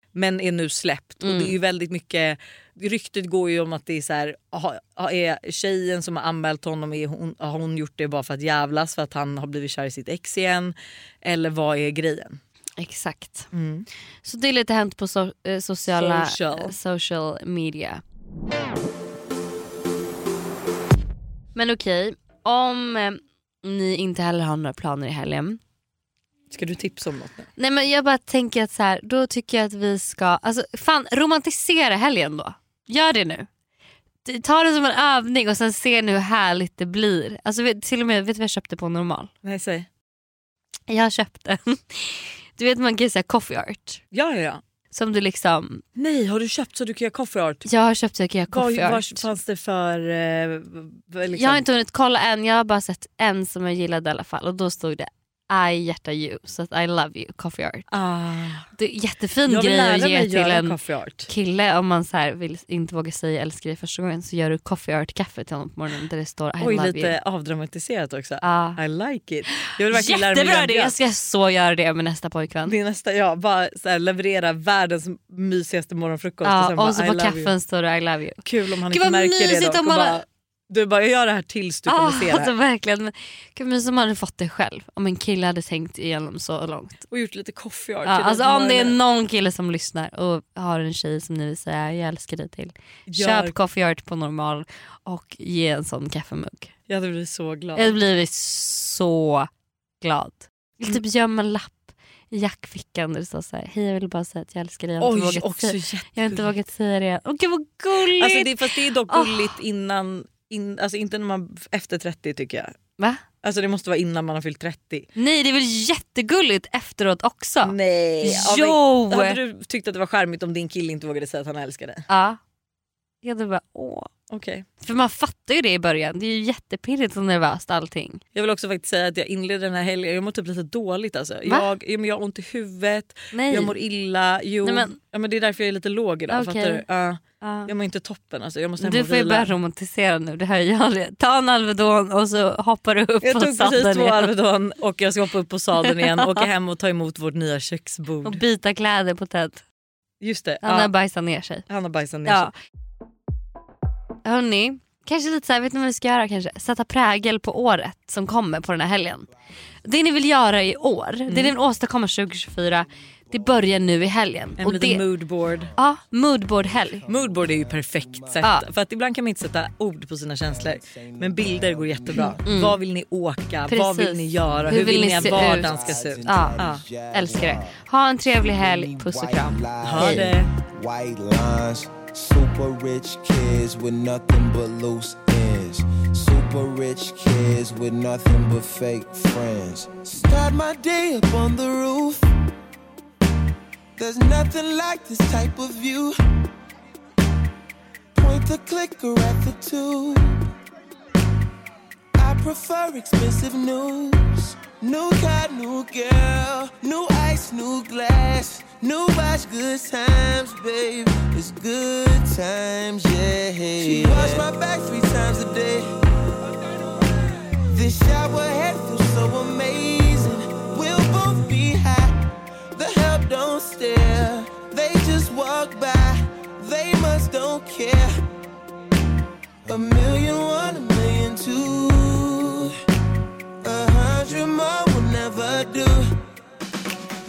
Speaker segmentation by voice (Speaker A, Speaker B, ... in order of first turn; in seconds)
Speaker A: 0.1-12.4, 13.5-13.9, 16.0-16.7, 26.5-27.5, 39.4-39.9, 44.1-44.6, 46.0-47.7, 48.5-51.6, 57.9-58.7, 59.5-61.3, 66.6-71.0, 72.7-77.5, 78.4-82.5, 87.1-89.0, 93.1-93.6, 96.9-98.0, 105.0-106.5, 108.0-112.7, 113.4-115.1, 117.6-122.0, 124.3-124.7, 128.3-139.5, 143.2-148.4, 150.2-150.9, 151.7-152.5, 161.3-161.6, 164.6-165.7, 167.1-176.8, 179.8-180.5
Speaker B: 1.2-1.6, 12.8-13.5, 14.2-18.0, 21.6-25.6, 27.6-33.5, 34.2-39.3, 40.9-44.0, 44.9-45.8, 47.7-49.3, 51.3-57.9, 58.8-60.8, 61.3-67.2, 68.4-68.8, 69.9-72.8, 76.4-80.2, 81.9-87.1, 88.0-96.7, 97.8-99.5, 100.0-109.5, 115.2-119.4, 122.1-122.4, 123.2-124.1, 124.8-128.2, 133.3-133.8, 134.6-134.9, 136.3-136.8, 137.4-137.7, 138.8-144.3, 145.9-146.5, 148.2-149.6, 150.6-151.7, 152.3-152.5, 154.2-159.3, 159.8-165.1, 165.8-167.0, 168.4-168.7, 172.4-172.8, 173.7-176.6, 177.1-180.3
Speaker C: 166.4-168.4, 170.4-172.5, 174.7-190.1, 213.9-214.4
Speaker D: 190.1-192.3, 194.0-196.2, 198.2-200.4, 202.2-215.9, 217.7-222.1, 222.8-228.1, 229.7-232.7, 233.6-236.1